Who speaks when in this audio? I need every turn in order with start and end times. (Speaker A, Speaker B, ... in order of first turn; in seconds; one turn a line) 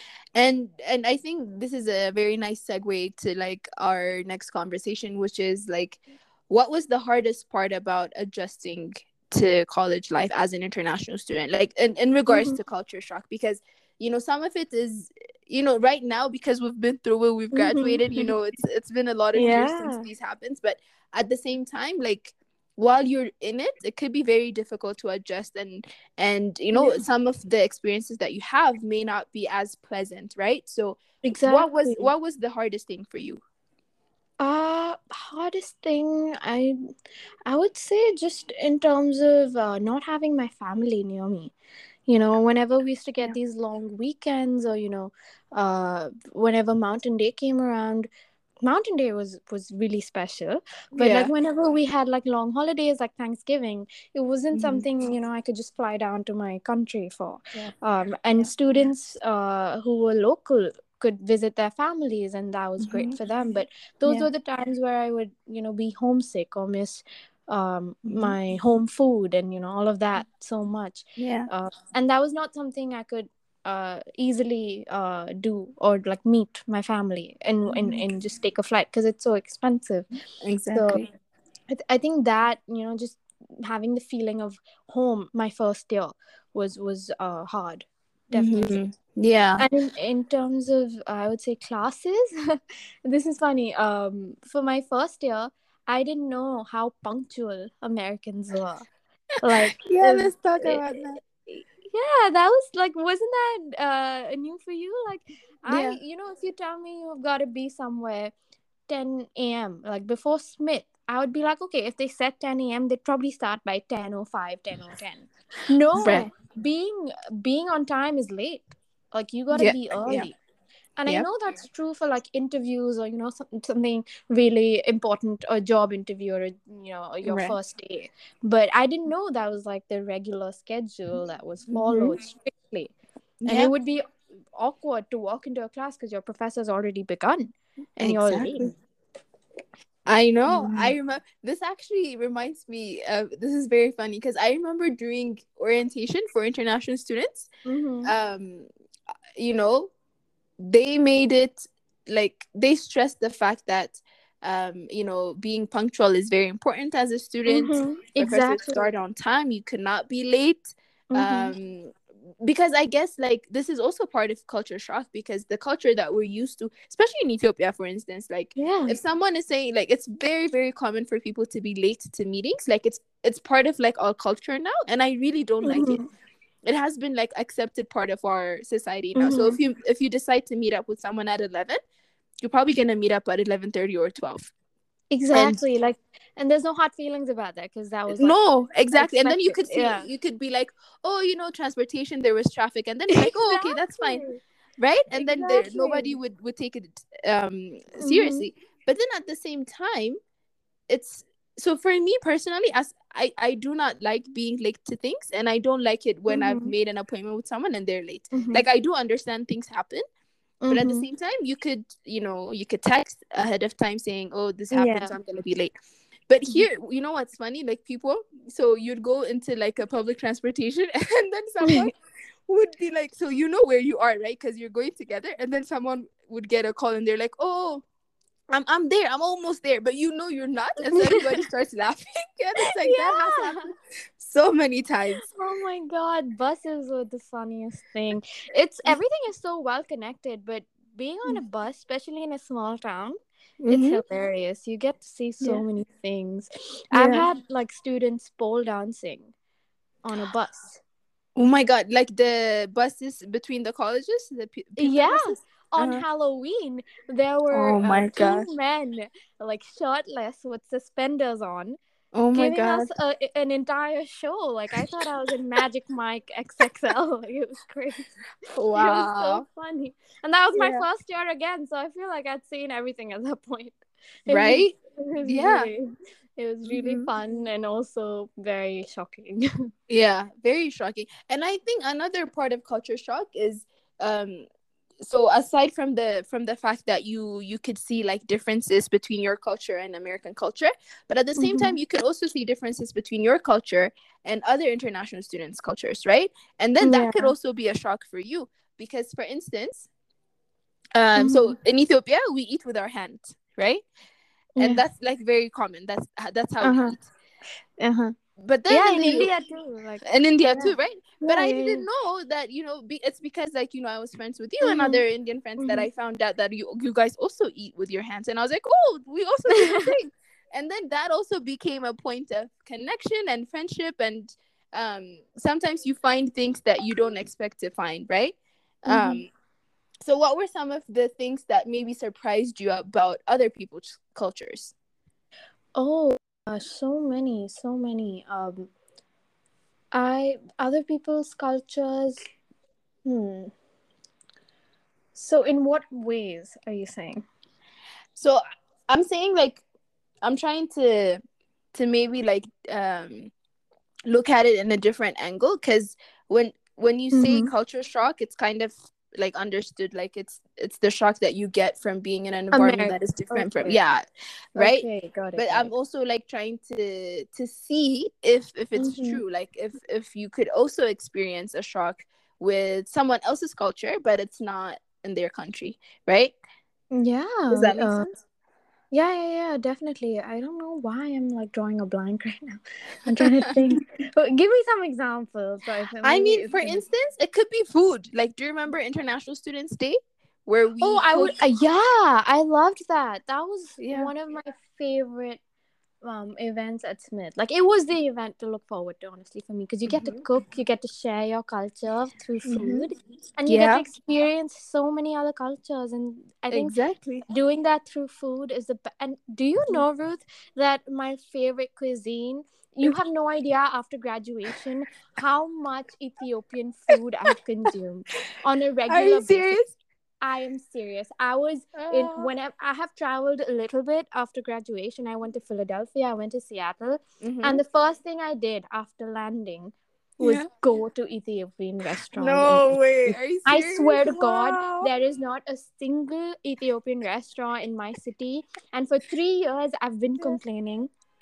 Speaker A: 0.3-33.4
Speaker B: 12.3-12.6
Speaker B: 17.5-18.3
Speaker B: 19.3-20.1
Speaker B: 26.7-27.0
Speaker B: 31.2-32.1
Speaker B: 34.4-36.8
Speaker B: 37.5-41.5
Speaker B: 42.1-48.1
Speaker B: 48.6-80.1
Speaker A: 51.0-51.3
Speaker A: 54.5-54.8
Speaker A: 62.8-63.1
Speaker A: 68.0-68.3
Speaker A: 71.2-71.5
Speaker A: 77.7-78.0
Speaker A: 80.4-81.0
Speaker B: 80.7-81.1
Speaker B: 81.7-88.8
Speaker A: 88.3-89.6
Speaker B: 89.6-98.9
Speaker B: 99.4-100.8
Speaker A: 99.5-101.2
Speaker B: 101.5-108.3
Speaker A: 105.7-106.0
Speaker B: 108.9-120.4
Speaker A: 116.0-116.3
Speaker A: 119.5-120.3
Speaker B: 121.0-132.9
Speaker A: 127.2-127.5
Speaker A: 131.7-132.2
Speaker A: 133.4-133.7
Speaker B: 133.5-134.0
Speaker B: 134.6-138.7
Speaker A: 138.0-138.7
Speaker A: 140.1-147.5
Speaker B: 140.5-140.9
Speaker B: 147.7-148.1
Speaker A: 148.0-148.7
Speaker A: 149.4-149.9
Speaker A: 150.6-176.0
Speaker B: 157.5-158.8
Speaker B: 161.1-161.5
Speaker B: 168.6-169.0
Speaker B: 175.6-176.1
Speaker A: 176.6-181.8
Speaker B: 179.2-179.6
Speaker A: 182.4-184.5
Speaker B: 185.1-188.4
Speaker A: 185.3-185.6
Speaker A: 188.1-194.2
Speaker B: 188.9-190.1
Speaker B: 193.1-194.4
Speaker A: 194.8-200.2
Speaker B: 195.2-196.2
Speaker B: 198.0-198.5
Speaker A: 200.9-210.0
Speaker B: 206.3-206.7
Speaker B: 208.3-208.6
Speaker B: 210.6-211.1
Speaker A: 210.7-215.7
Speaker B: 214.7-215.1
Speaker A: 216.3-221.9
Speaker A: 222.5-227.8
Speaker A: 228.5-235.2
Speaker B: 230.9-231.4
Speaker B: 232.6-233.7
Speaker B: 235.2-243.2
Speaker A: 243.6-244.0
Speaker B: 243.7-249.3
Speaker A: 246.9-247.2
Speaker B: 250.0-250.8
Speaker A: 251.3-256.0
Speaker B: 254.8-261.8
Speaker A: 257.5-258.5
Speaker A: 262.1-262.9
Speaker B: 262.3-268.1
Speaker A: 268.5-269.4
Speaker B: 268.7-275.9
Speaker A: 270.5-270.8
Speaker A: 274.3-275.7
Speaker B: 276.4-279.5
Speaker A: 276.6-277.1
Speaker A: 279.9-284.4
Speaker A: 285.0-299.9
Speaker B: 291.4-291.8
Speaker B: 296.8-297.3
Speaker A: 300.9-303.8
Speaker B: 301.1-301.6
Speaker B: 304.6-304.8
Speaker A: 304.6-307.0
Speaker B: 306.6-307.0
Speaker B: 307.8-308.1
Speaker A: 308.4-309.3
Speaker B: 308.7-311.9
Speaker A: 310.0-329.3
Speaker B: 314.6-315.0
Speaker B: 315.6-315.9
Speaker B: 319.5-319.9
Speaker B: 328.9-329.2
Speaker A: 330.0-334.7
Speaker B: 335.8-338.7
Speaker B: 339.9-342.3
Speaker B: 343.1-343.5
Speaker B: 345.1-347.2
Speaker A: 348.1-349.6
Speaker A: 350.2-351.2
Speaker A: 351.7-353.3
Speaker A: 354.1-364.0
Speaker B: 357.1-357.5
Speaker B: 362.5-363.8
Speaker A: 364.6-376.3
Speaker B: 364.6-365.7
Speaker B: 368.8-369.2
Speaker B: 376.9-378.1
Speaker A: 377.5-378.2
Speaker B: 378.9-386.8
Speaker A: 383.2-383.8
Speaker A: 386.0-391.4
Speaker B: 390.8-395.4
Speaker A: 393.8-394.1
Speaker B: 396.0-406.8
Speaker A: 399.9-400.2
Speaker A: 402.5-402.9
Speaker A: 403.5-403.8
Speaker A: 406.5-407.2
Speaker B: 407.3-419.6
Speaker A: 418.9-419.8
Speaker B: 420.2-440.9
Speaker A: 421.7-422.3
Speaker A: 427.2-427.6
Speaker A: 430.2-430.5
Speaker A: 432.1-434.9